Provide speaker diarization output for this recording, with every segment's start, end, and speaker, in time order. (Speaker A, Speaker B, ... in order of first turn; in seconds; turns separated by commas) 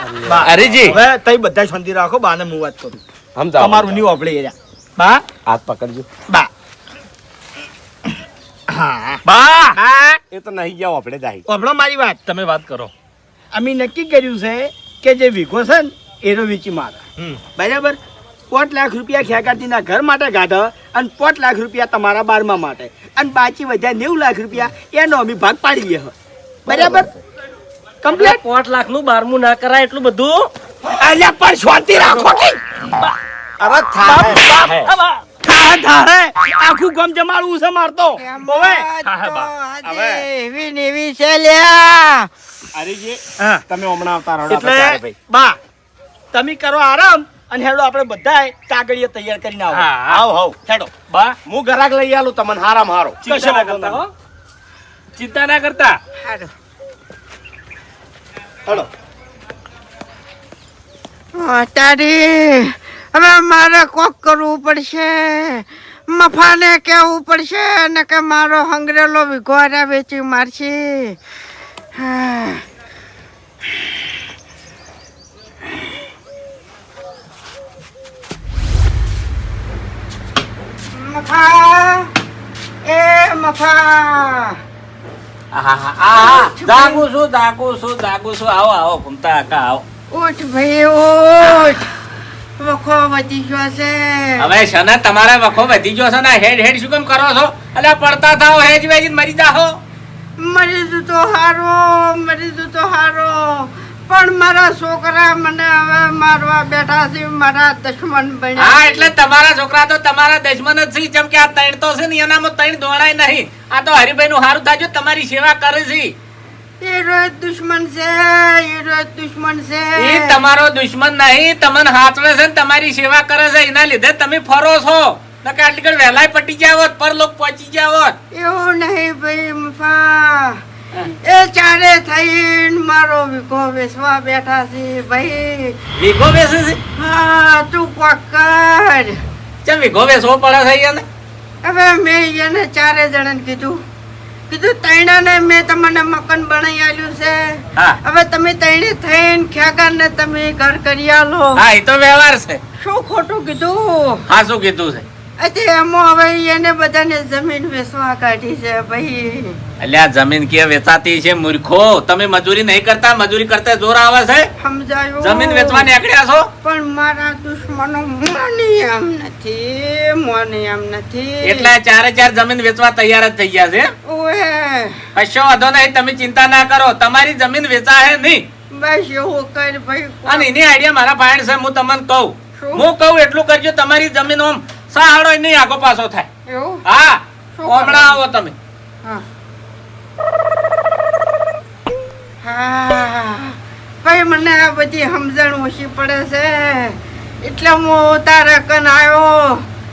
Speaker A: 0.2-1.0, Speaker B: 0.3-3.0, Speaker A: 3.3-4.0, Speaker B: 3.6-5.2, Speaker A: 5.5-6.1, Speaker B: 8.7-9.2, Speaker A: 9.3-11.4, Speaker B: 11.5-12.2, Speaker C: 12.2-12.9, Speaker B: 13.5-17.0, Speaker B: 17.5-18.0, Speaker B: 18.5-26.1, Speaker B: 26.6-27.1, Speaker A: 26.7-27.1, Speaker B: 28.0-28.4, Speaker D: 28.1-30.5, Speaker B: 30.9-32.6, Speaker A: 33.6-34.9, Speaker B: 34.0-38.9, Speaker E: 38.2-42.3, Speaker C: 39.0-39.5, Speaker A: 39.8-40.2, Speaker A: 42.7-45.1, Speaker B: 44.5-45.6, Speaker B: 46.3-50.0, Speaker C: 49.7-50.3, Speaker A: 50.0-50.8, Speaker C: 51.1-51.4, Speaker A: 51.5-53.2, Speaker B: 53.2-54.0, Speaker C: 53.2-54.1, Speaker C: 55.1-56.0, Speaker E: 56.2-56.5, Speaker E: 61.3-71.2, Speaker E: 71.9-72.6, Speaker E: 80.9-82.1, Speaker E: 82.8-84.6, Speaker F: 85.5-89.8, Speaker E: 86.1-87.0, Speaker E: 90.1-91.9, Speaker E: 92.6-94.5, Speaker F: 94.4-99.8, Speaker E: 100.4-109.1, Speaker F: 108.6-116.1, Speaker E: 116.8-120.4, Speaker F: 120.0-128.2, Speaker E: 128.3-130.6, Speaker E: 131.1-135.8, Speaker F: 135.9-136.8, Speaker E: 136.9-139.2, Speaker F: 139.6-141.0, Speaker E: 141.6-143.8, Speaker E: 144.5-151.6, Speaker F: 151.6-152.6, Speaker E: 152.8-154.2, Speaker F: 154.3-155.1, Speaker E: 155.4-159.6, Speaker F: 159.8-164.5, Speaker E: 164.6-165.9, Speaker F: 165.2-166.5, Speaker E: 166.6-171.7, Speaker F: 171.4-173.9, Speaker E: 174.0-175.0, Speaker F: 175.1-178.4, Speaker E: 178.7-180.5, Speaker F: 180.2-186.3, Speaker E: 182.6-182.9, Speaker E: 186.5-186.8, Speaker F: 186.8-188.5, Speaker E: 187.6-188.2, Speaker E: 192.4-199.6